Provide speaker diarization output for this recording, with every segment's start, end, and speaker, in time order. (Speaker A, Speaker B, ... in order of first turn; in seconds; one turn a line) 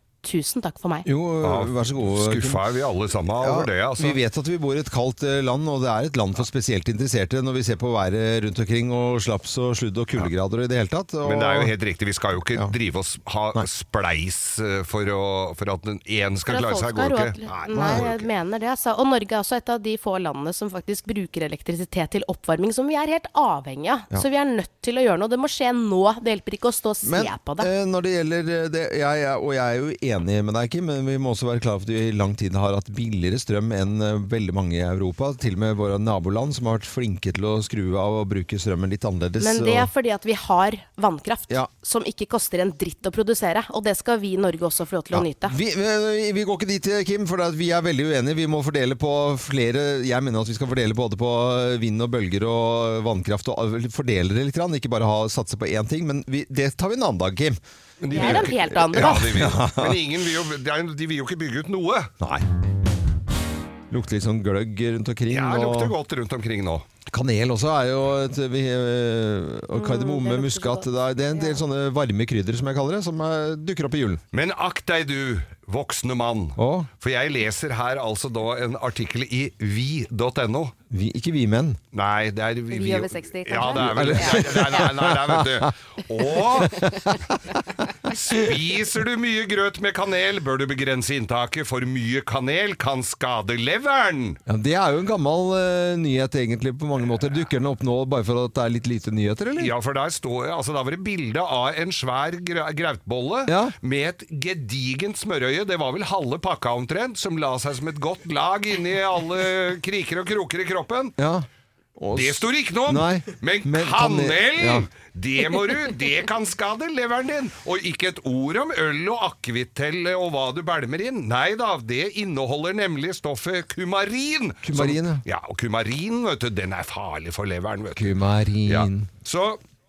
Speaker A: 0.2-1.1
Speaker B: 1.1-2.6
Speaker C: 1.4-4.2
Speaker B: 3.4-11.7
Speaker C: 11.2-18.3
Speaker A: 16.5-27.7
Speaker B: 17.7-18.1
Speaker B: 27.0-39.9
Speaker A: 39.4-45.6
Speaker B: 45.1-57.6
Speaker C: 58.0-62.1
Speaker A: 58.1-59.3
Speaker B: 58.1-60.0
Speaker B: 63.9-65.9
Speaker C: 65.3-66.9
Speaker B: 67.1-74.2
Speaker A: 69.9-70.7
Speaker C: 74.3-80.8
Speaker B: 76.6-76.9
Speaker B: 80.9-81.8
Speaker C: 81.9-86.9
Speaker A: 82.7-84.6
Speaker B: 83.8-85.7
Speaker B: 86.6-87.2
Speaker C: 88.0-94.4
Speaker B: 94.5-99.7
Speaker C: 99.6-111.2
Speaker B: 103.5-103.7
Speaker B: 111.2-114.9
Speaker C: 112.1-129.6
Speaker B: 124.6-125.2
Speaker B: 128.0-129.1